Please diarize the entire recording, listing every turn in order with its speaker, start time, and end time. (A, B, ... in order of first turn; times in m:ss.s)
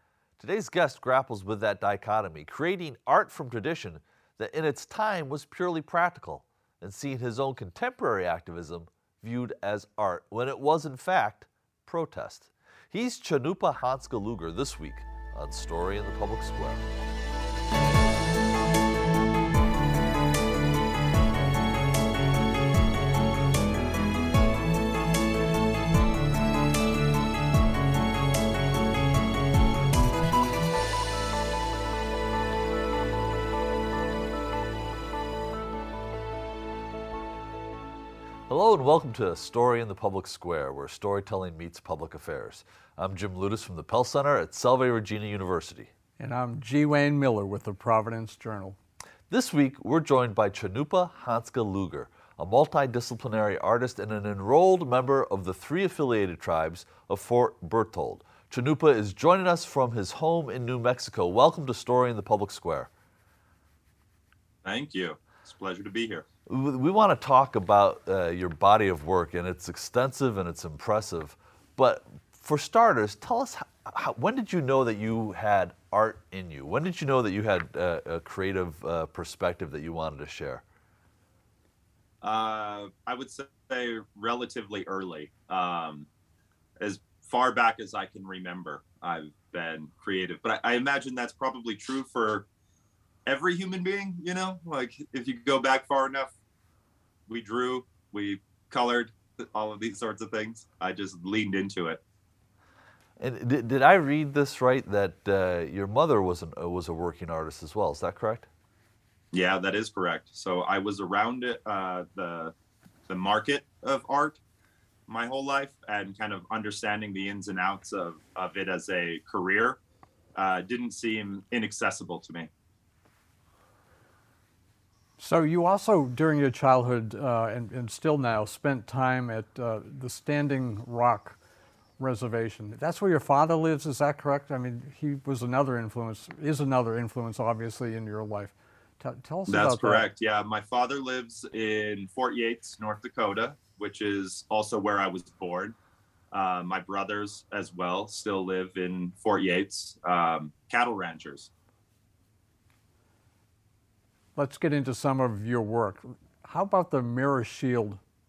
0:00.4-0:16.8 A
0:38.5-0:45.9 A
0:46.2-0:48.8 B
0:49.3-1:02.9 A
1:04.6-1:06.2 C
1:06.5-1:20.6 A
1:22.2-1:26.1 C
1:26.8-1:32.5 C
1:33.2-1:36.3 C
1:37.3-1:42.0 C
1:43.2-1:48.5 A
1:49.3-1:52.5 C
1:53.1-1:54.4 C
1:55.1-1:59.8 C
2:00.4-2:02.5 C
2:05.2-2:11.4 B
2:12.0-2:20.1 B
2:19.5-2:25.7 C
2:26.3-2:31.5 C
2:34.4-2:38.0 B